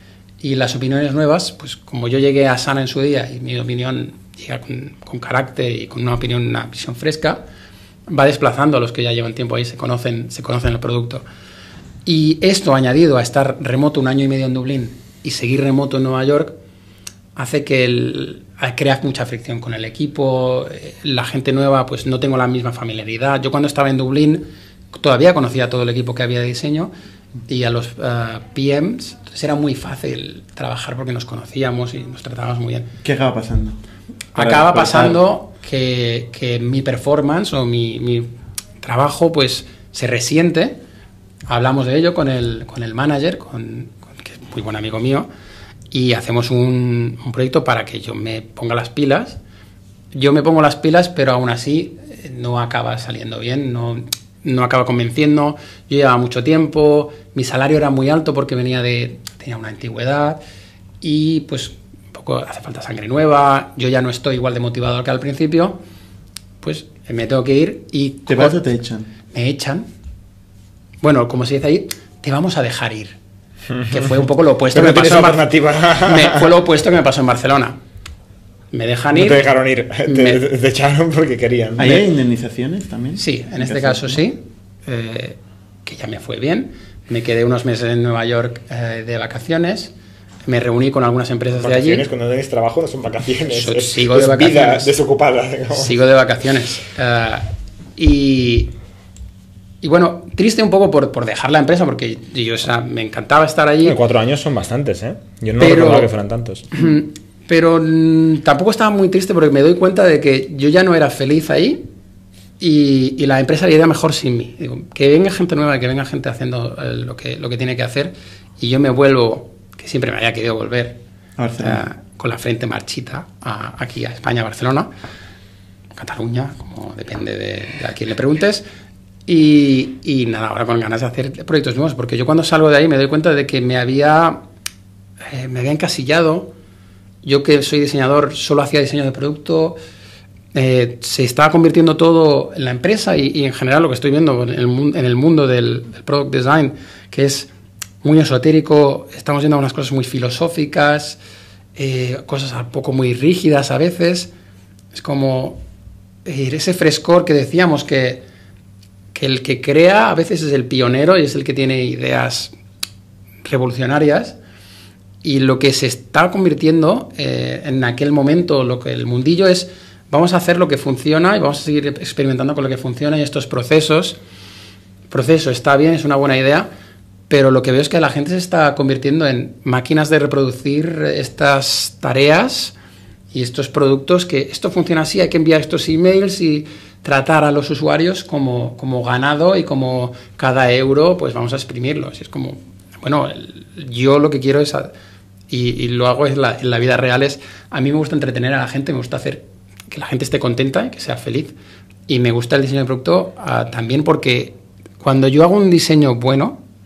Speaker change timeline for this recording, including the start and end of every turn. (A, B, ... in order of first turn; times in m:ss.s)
0:00.4-0:07.4 A
0:08.1-0:11.2 A
0:12.1-0:16.6 A
0:17.4-0:26.9 A
0:27.5-0:32.9 A
0:33.0-0:33.8 B
0:34.4-0:38.3 A
0:34.4-0:35.2 B
0:38.8-0:40.8 A
0:41.5-0:45.3 A
0:45.9-0:49.4 A
0:50.1-1:00.4 A
1:01.0-1:05.8 A
1:06.6-1:08.6 A
1:08.3-1:09.1 B
1:09.3-1:09.9 A
1:11.0-1:13.2 A
1:13.9-1:15.5 A
1:14.7-1:16.5 C
1:16.0-1:17.8 A
1:18.7-1:19.4 A
1:19.1-1:22.0 C
1:20.0-1:20.4 A
1:21.8-1:24.2 B
1:23.2-1:29.9 A
1:30.5-1:32.1 A
1:31.6-1:35.9 C
1:33.5-1:34.9 A
1:35.7-1:38.7 A
1:39.8-1:44.0 A
1:43.8-1:46.7 C
1:45.6-1:46.1 A
1:46.7-1:51.8 A
1:52.6-2:01.0 A
2:01.4-2:01.9 B
2:01.6-2:04.9 A
2:06.0-2:08.6 A
2:09.3-2:14.4 A
2:15.3-2:16.5 A
2:17.2-2:19.8 A
2:20.5-2:27.5 A
2:28.0-2:31.2 A
2:31.8-2:34.3 A
2:34.9-2:35.6 A
2:36.2-2:38.2 A
2:39.1-2:42.5 A
2:43.5-2:44.4 A
2:45.2-2:54.2 A
2:55.1-2:56.7 A
2:57.3-3:02.8 A
3:03.3-3:14.9 A
3:15.5-3:21.6 A
3:22.1-3:26.6 A